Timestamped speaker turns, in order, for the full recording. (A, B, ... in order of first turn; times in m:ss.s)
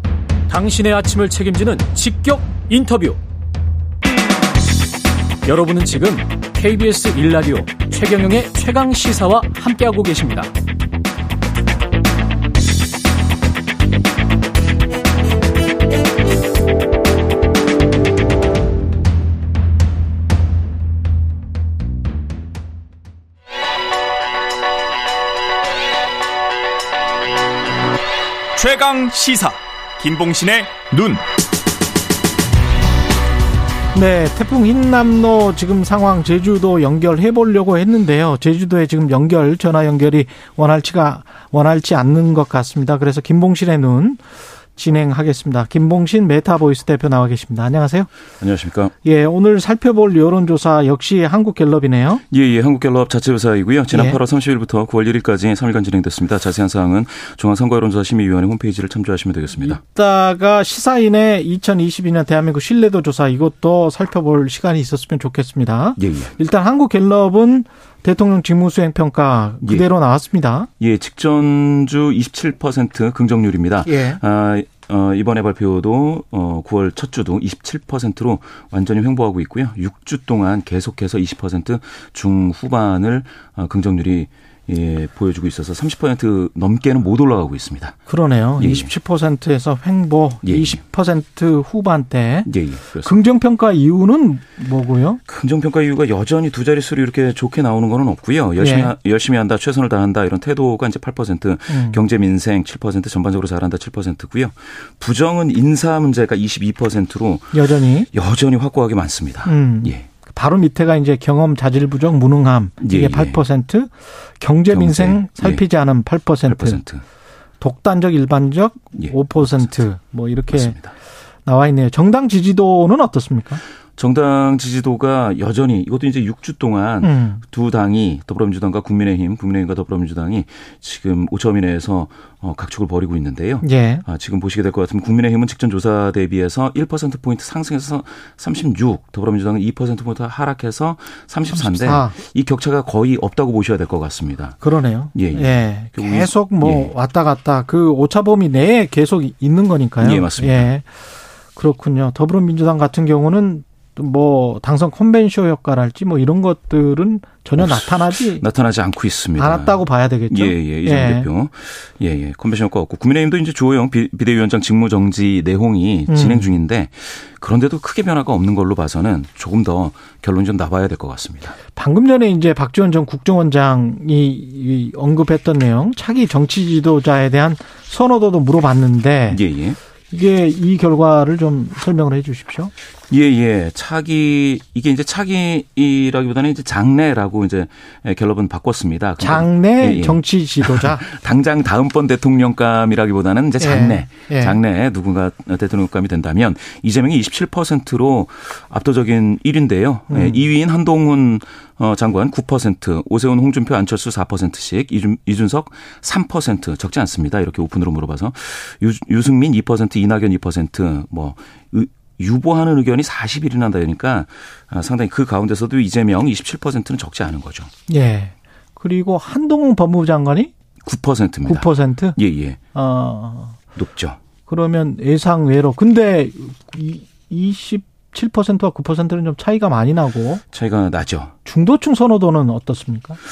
0:00.5-0:03.2 A
0:05.4-0:10.5 A
0:28.6-0:31.2 B
0:33.9-0:44.2 C
0:44.8-0:48.1 C
0:48.4-0:48.9 D
0:49.0-0:52.2 C
0:52.3-0:59.8 D
0:53.9-0:54.2 C
0:59.6-1:10.7 C
1:06.0-1:06.4 D
1:09.6-1:09.9 D
1:10.8-1:28.0 D
1:13.8-1:14.2 C
1:28.1-1:32.5 C
1:28.6-1:28.9 D
1:30.4-1:30.8 D
1:32.5-1:33.1 D
1:33.0-1:35.2 C
1:35.3-1:50.1 D
1:38.6-1:38.9 C
1:41.7-1:42.0 C
1:47.5-1:48.1 C
1:49.4-1:56.8 C
1:52.8-1:53.4 D
1:54.7-1:55.6 D
1:56.4-1:57.0 D
1:57.6-2:00.8 C
1:59.0-1:59.7 D
2:00.5-2:00.9 D
2:01.4-2:03.6 C
2:04.0-2:24.6 D
2:07.0-2:07.4 C
2:13.6-2:14.0 C
2:21.5-2:22.2 C
2:24.6-2:30.9 C
2:25.2-2:26.9 D
2:30.0-2:30.7 D
2:31.6-2:38.4 C
2:37.6-2:51.6 D
2:39.4-2:41.3 C
2:46.1-2:46.6 C
2:51.7-2:59.4 C
2:59.3-2:59.8 D
3:00.1-3:02.7 C
3:03.1-3:37.7 D
3:09.2-3:11.0 C
3:13.6-3:14.6 C
3:20.1-3:20.4 C
3:37.9-3:40.5 C
3:40.8-3:42.6 D
3:41.5-3:42.2 C
3:42.7-3:43.6 C
3:43.8-3:44.2 D
3:44.5-3:50.4 C
3:50.5-3:51.3 D
3:51.4-3:53.2 C